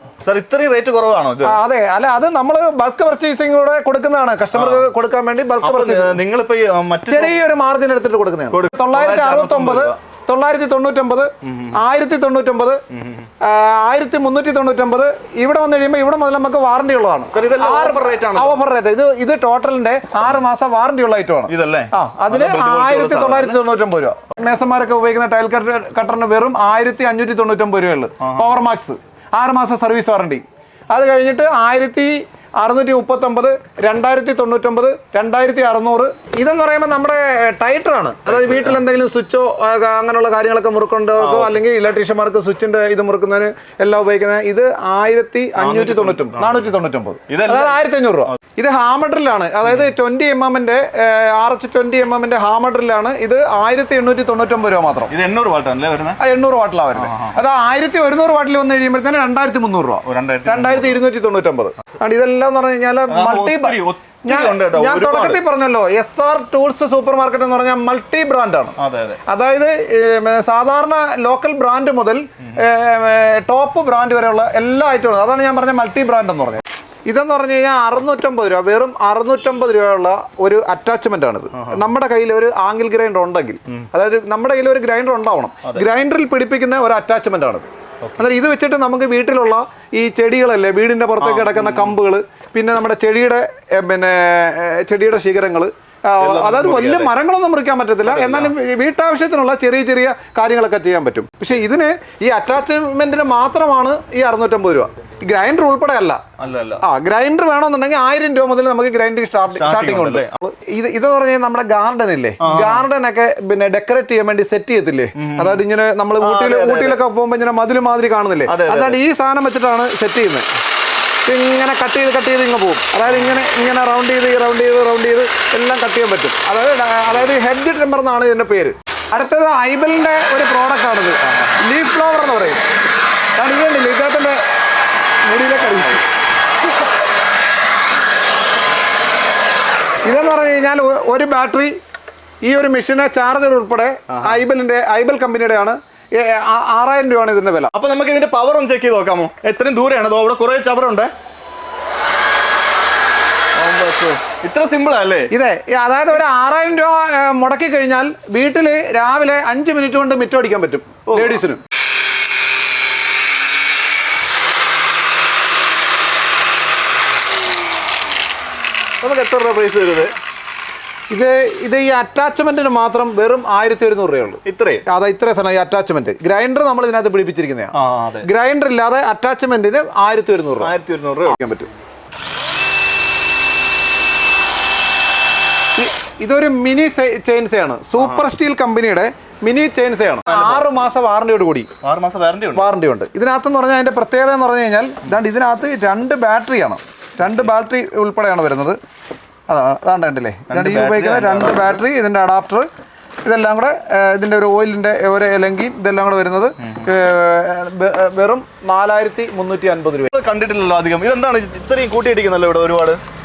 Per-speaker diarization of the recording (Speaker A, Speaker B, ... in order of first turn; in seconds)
Speaker A: 0.2-1.6, 4.5-4.9, 5.6-7.3, 8.5-10.0, 11.4-11.8, 12.9-13.3, 17.3-18.6, 21.5-23.6, 28.2-28.5, 38.3-38.8, 41.2-41.5, 45.6-46.6, 47.3-48.4, 55.1-56.2, 57.0-57.4, 60.0-61.0, 63.1-65.4, 68.8-69.2, 81.5-81.8, 91.2-92.0, 96.2-97.1, 98.0-98.5, 106.4-106.8, 109.5-110.3, 112.4-112.8, 115.2-115.6, 116.2-117.0, 118.5-119.0, 144.1-144.4, 147.7-151.1, 153.6-155.3, 161.1-161.4, 169.0-170.1, 174.4-174.8, 177.7-178.3, 180.6-181.4, 188.0-188.3, 190.3-190.7, 191.8-192.7, 200.5-201.8, 210.1-213.0
Speaker B: 1.4-6.2, 7.1-12.8, 13.4-55.1, 56.2-68.8, 69.2-106.2, 106.8-120.5, 121.2-132.7, 133.3-134.4, 135.2-136.1, 140.0-141.8, 142.4-147.7, 155.3-161.6, 171.1-180.7, 181.2-181.7, 185.8-191.7, 192.6-198.8, 199.5-202.7, 203.2-210.1